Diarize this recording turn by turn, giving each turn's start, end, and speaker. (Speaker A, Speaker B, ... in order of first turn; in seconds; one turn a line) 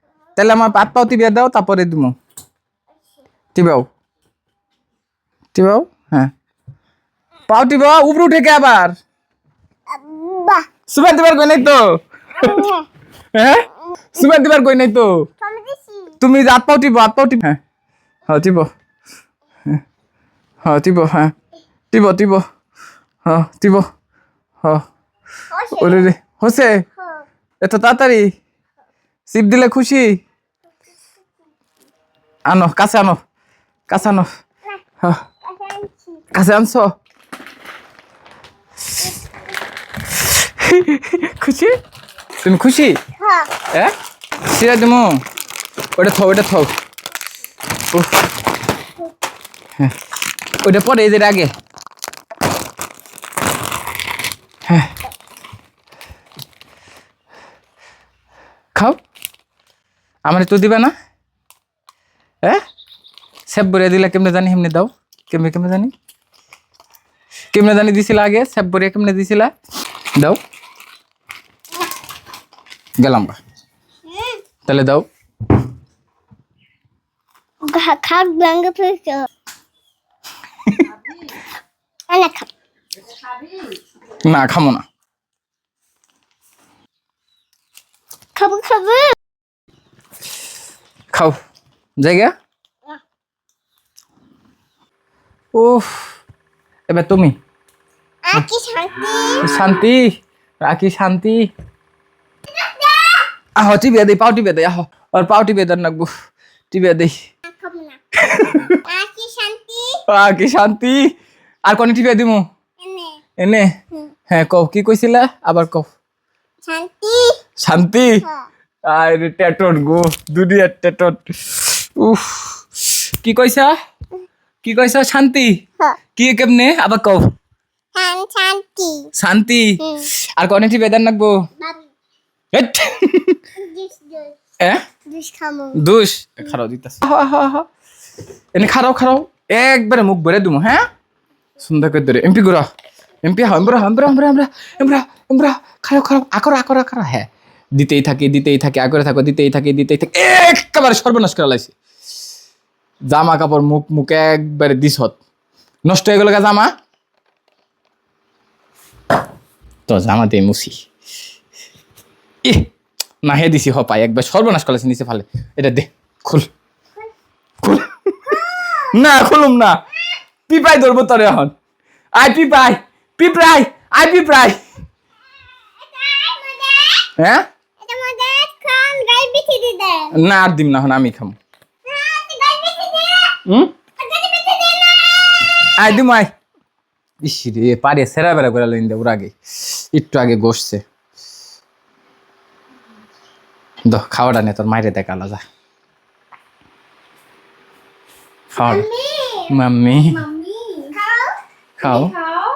Speaker A: 0.4-2.1
Speaker A: 3.5-3.9
Speaker A: 5.5-6.3
Speaker A: 7.5-9.0
Speaker B: 9.9-10.7
Speaker A: 10.9-11.8
Speaker B: 12.4-12.9
Speaker A: 12.4-12.7
Speaker A: 13.3-15.1
Speaker B: 15.4-16.1
Speaker A: 16.2-17.6
Speaker A: 18.3-18.7
Speaker A: 20.6-21.3
Speaker A: 21.9-22.4
Speaker A: 23.3-23.9
Speaker B: 25.5-26.1
Speaker A: 25.8-26.8
Speaker B: 27.0-27.3
Speaker A: 27.6-28.3
Speaker A: 29.3-30.2
Speaker A: 32.5-33.2
Speaker A: 33.9-34.3
Speaker B: 35.5-36.2
Speaker A: 36.3-36.9
Speaker A: 40.3-41.8
Speaker A: 42.4-43.0
Speaker B: 43.2-43.5
Speaker A: 44.4-45.2
Speaker A: 46.0-46.7
Speaker A: 47.9-48.2
Speaker A: 50.6-51.5
Speaker A: 54.7-54.9
Speaker A: 60.3-60.9
Speaker A: 63.5-65.9
Speaker A: 67.5-69.5
Speaker A: 73.0-73.4
Speaker B: 74.1-74.4
Speaker A: 74.7-75.0
Speaker B: 77.7-79.3
Speaker B: 82.1-82.5
Speaker A: 84.2-84.8
Speaker B: 88.3-89.1
Speaker A: 92.0-92.3
Speaker A: 95.5-96.2
Speaker A: 96.9-97.4
Speaker B: 98.2-99.5
Speaker A: 99.4-101.5
Speaker B: 102.5-103.2
Speaker A: 103.6-106.1
Speaker A: 106.7-107.2
Speaker B: 107.5-108.0
Speaker A: 108.2-108.8
Speaker B: 108.8-110.0
Speaker A: 110.1-111.1
Speaker A: 111.7-112.5
Speaker B: 112.8-113.2
Speaker A: 113.4-113.7
Speaker A: 114.3-115.9
Speaker B: 116.7-117.4
Speaker A: 117.6-118.2
Speaker A: 118.9-122.6
Speaker A: 123.2-123.7
Speaker A: 124.6-125.5
Speaker A: 126.2-127.3
Speaker B: 128.0-129.1
Speaker A: 129.2-129.8
Speaker B: 129.8-130.1
Speaker A: 130.4-131.4
Speaker B: 131.6-131.9
Speaker A: 132.5-133.4
Speaker B: 133.6-134.4
Speaker B: 135.1-135.8
Speaker A: 135.8-137.7
Speaker A: 138.6-140.8
Speaker A: 141.6-142.7
Speaker A: 143.2-151.8
Speaker A: 153.1-155.2
Speaker A: 155.9-156.7
Speaker A: 159.9-160.8
Speaker A: 163.2-166.5
Speaker A: 167.6-168.4
Speaker B: 168.3-168.9
Speaker A: 168.9-169.8
Speaker A: 170.5-171.5
Speaker A: 172.2-174.6
Speaker B: 175.8-177.1
Speaker A: 177.2-177.4
Speaker B: 177.8-180.1
Speaker A: 180.2-181.3
Speaker B: 181.8-183.4
Speaker A: 183.5-183.7
Speaker B: 184.0-185.5
Speaker A: 185.8-186.3
Speaker A: 187.2-190.8
Speaker A: 193.8-195.4
Speaker A: 198.5-198.8
Speaker B: 198.6-199.5
Speaker A: 199.5-200.2
Speaker B: 200.1-201.3
Speaker A: 201.8-202.2